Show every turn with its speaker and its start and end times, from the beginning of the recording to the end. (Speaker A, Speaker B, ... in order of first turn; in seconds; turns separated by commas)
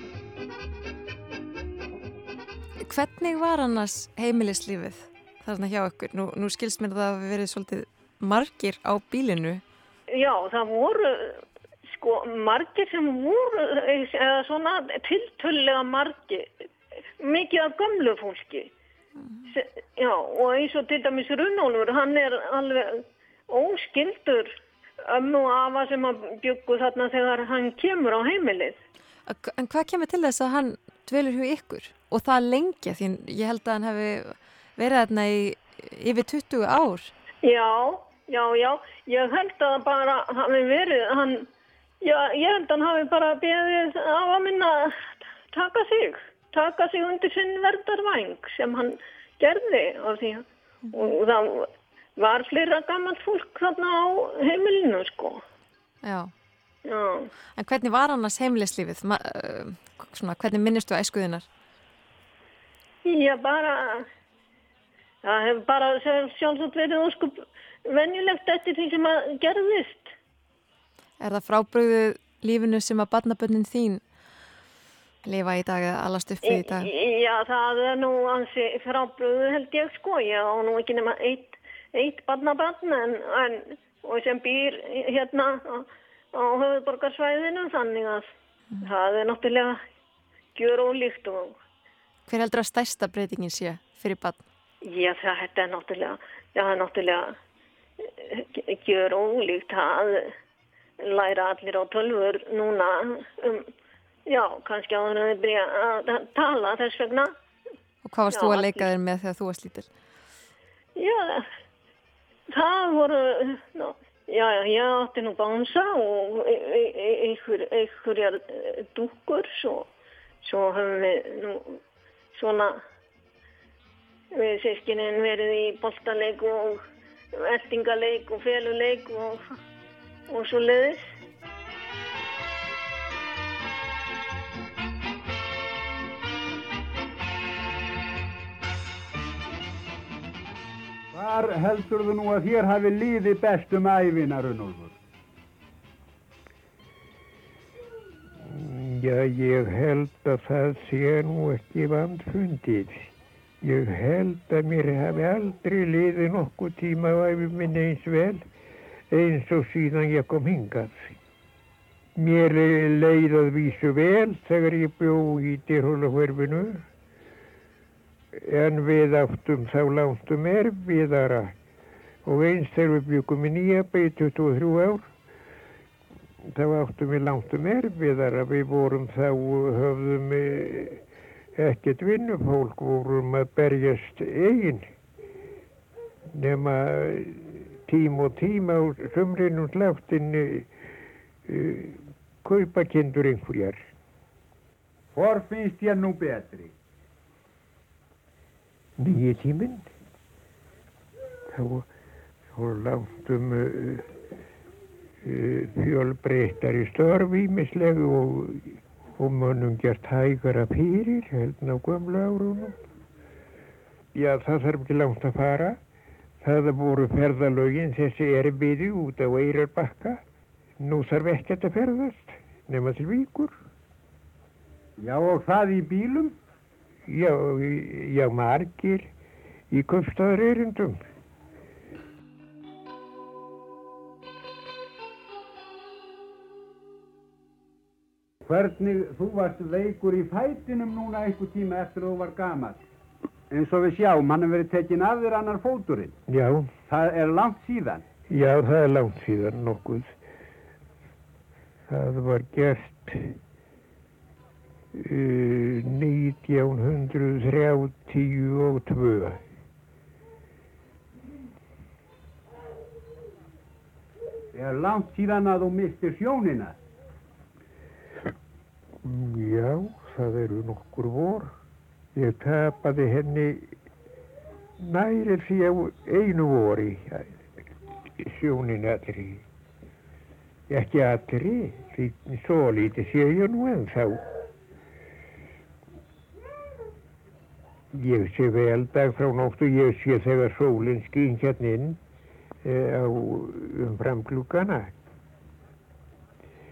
Speaker A: 2.8-9.6, Speaker B: 10.1-16.5, Speaker B: 17.2-18.7, Speaker A: 19.2-19.5, Speaker B: 19.5-28.8, Speaker A: 29.3-37.1, Speaker B: 37.4-41.5, Speaker B: 42.0-45.0, Speaker B: 45.5-55.4, Speaker A: 50.8-51.1, Speaker A: 56.0-56.3, Speaker B: 56.9-57.3, Speaker A: 57.5-61.5, Speaker B: 63.0-64.1, Speaker B: 65.2-70.1, Speaker A: 71.2-74.0, Speaker A: 75.2-76.9, Speaker B: 76.5-88.3, Speaker B: 88.8-89.8, Speaker B: 90.5-91.5, Speaker A: 92.3-94.4, Speaker B: 94.8-97.3, Speaker B: 98.2-100.3, Speaker B: 101.0-103.7, Speaker B: 104.3-107.3, Speaker A: 108.0-109.9, Speaker B: 108.3-108.9, Speaker B: 111.0-111.5, Speaker B: 112.5-119.9, Speaker B: 120.4-121.8, Speaker B: 122.3-122.8, Speaker B: 124.3-126.8, Speaker B: 127.3-129.5, Speaker B: 130.3-131.1, Speaker C: 141.1-144.9, Speaker D: 148.4-158.4, Speaker D: 159.1-161.2, Speaker D: 162.2-166.9, Speaker D: 168.3-171.5, Speaker D: 172.2-175.1, Speaker D: 176.5-181.0, Speaker D: 181.6-184.9, Speaker D: 186.3-190.7, Speaker D: 191.4-193.9, Speaker C: 195.1-196.7, Speaker D: 199.0-199.9, Speaker D: 201.5-201.9, Speaker D: 202.5-204.1, Speaker D: 205.2-212.8, Speaker D: 214.1-215.8, Speaker D: 216.4-220.2, Speaker D: 220.8-223.6, Speaker C: 225.0-226.3, Speaker D: 227.1-229.1, Speaker D: 229.7-231.0, Speaker C: 238.4-242.8, Speaker C: 243.5-246.2, Speaker D: 246.3-246.7, Speaker C: 246.9-248.0, Speaker D: 248.3-250.1, Speaker D: 251.9-253.4, Speaker D: 254.9-259.4, Speaker C: 264.5-266.8, Speaker D: 269.0-271.5, Speaker D: 272.1-273.7, Speaker D: 274.8-277.4, Speaker D: 278.1-279.4, Speaker D: 280.7-284.2, Speaker D: 287.9-292.0, Speaker D: 292.6-294.9